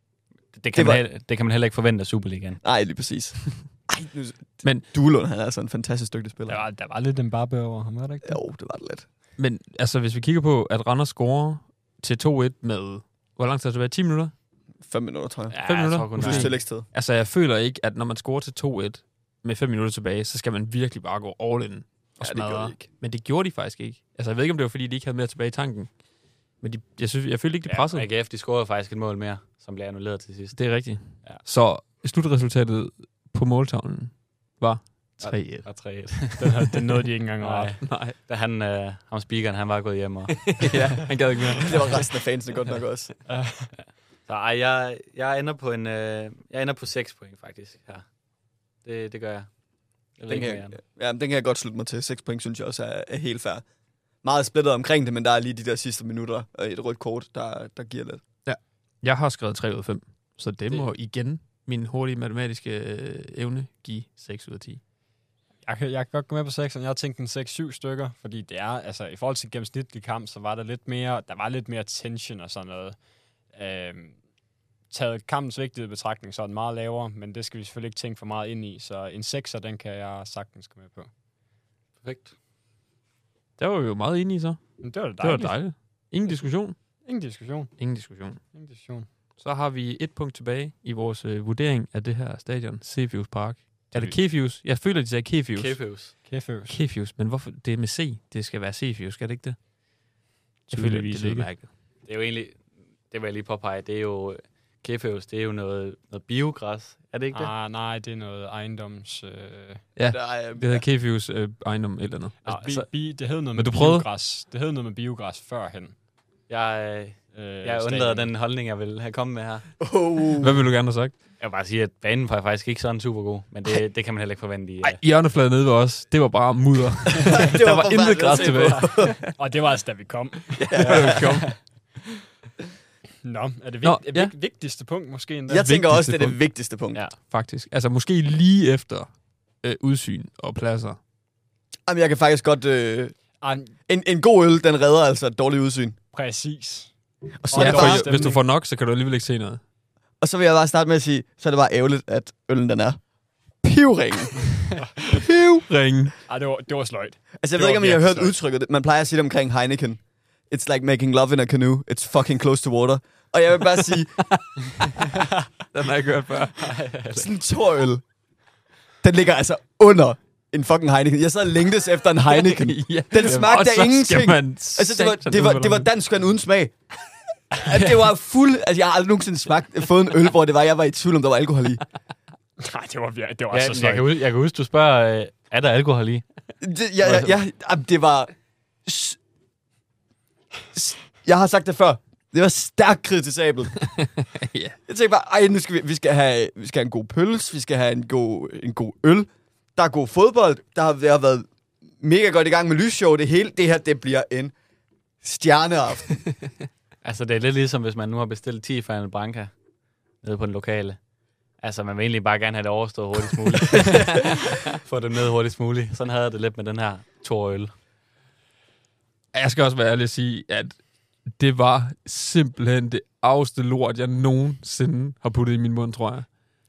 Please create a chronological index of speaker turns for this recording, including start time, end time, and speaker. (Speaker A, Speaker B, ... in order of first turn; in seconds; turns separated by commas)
Speaker A: 0.5-2.6, Speaker B: 0.7-1.0, Speaker B: 2.6-6.6, Speaker C: 6.5-8.4, Speaker B: 8.2-9.1, Speaker D: 9.4-14.3, Speaker B: 14.8-15.6, Speaker A: 15.5-16.6, Speaker D: 15.6-25.9, Speaker B: 16.1-16.9, Speaker B: 22.2-22.9, Speaker D: 26.6-28.1, Speaker A: 27.7-30.6, Speaker D: 30.5-35.7, Speaker A: 35.2-36.8, Speaker C: 36.4-37.8, Speaker A: 37.4-40.8, Speaker D: 37.8-38.2, Speaker D: 40.5-42.0, Speaker B: 41.6-43.1, Speaker C: 43.3-43.7, Speaker A: 44.3-48.0, Speaker A: 48.8-49.5, Speaker A: 50.2-50.8, Speaker B: 50.3-53.6, Speaker B: 54.2-58.2, Speaker D: 58.5-64.8, Speaker C: 65.7-73.0, Speaker C: 73.5-74.2, Speaker C: 74.9-81.1, Speaker A: 82.0-82.3, Speaker D: 83.6-86.8, Speaker C: 84.8-85.6, Speaker C: 87.0-87.8, Speaker D: 87.8-88.4, Speaker C: 88.5-89.1, Speaker D: 89.4-95.9, Speaker C: 93.9-94.2, Speaker A: 95.5-96.1, Speaker C: 96.2-96.8, Speaker D: 96.7-99.6, Speaker C: 100.7-101.5, Speaker D: 100.7-101.7, Speaker A: 102.0-107.5, Speaker C: 107.3-109.8, Speaker D: 110.0-112.9, Speaker B: 110.0-110.8, Speaker C: 112.4-116.0, Speaker D: 113.5-114.1, Speaker A: 116.5-119.7, Speaker C: 117.3-118.3, Speaker B: 119.8-120.6, Speaker D: 120.4-121.2, Speaker A: 121.4-125.0, Speaker D: 124.8-129.3, Speaker B: 127.2-129.2, Speaker C: 129.3-131.2, Speaker B: 130.6-131.4, Speaker D: 130.8-131.6, Speaker C: 133.2-135.7, Speaker D: 133.8-134.3, Speaker B: 135.5-137.0, Speaker D: 135.7-136.4, Speaker D: 137.2-141.0, Speaker B: 141.9-143.2, Speaker C: 143.4-143.7, Speaker B: 143.9-146.0, Speaker C: 146.1-146.9, Speaker B: 147.4-148.2, Speaker C: 147.5-148.4, Speaker D: 147.5-149.6, Speaker B: 150.2-153.0, Speaker B: 153.6-155.7, Speaker D: 155.7-156.2, Speaker C: 156.3-158.4, Speaker B: 157.4-164.2, Speaker D: 164.4-165.1, Speaker D: 165.7-166.8, Speaker A: 166.6-167.3, Speaker B: 167.1-168.0, Speaker B: 169.0-176.7, Speaker D: 172.4-175.9, Speaker B: 177.5-181.8, Speaker C: 182.6-184.1, Speaker A: 183.5-186.2, Speaker B: 186.6-188.3, Speaker A: 187.0-187.3, Speaker B: 188.9-189.2, Speaker B: 190.7-193.8, Speaker D: 194.4-194.8, Speaker B: 194.9-201.5, Speaker B: 202.0-204.5, Speaker B: 205.2-206.2, Speaker A: 207.0-209.5, Speaker A: 210.2-211.0, Speaker A: 211.6-217.7, Speaker D: 219.3-226.3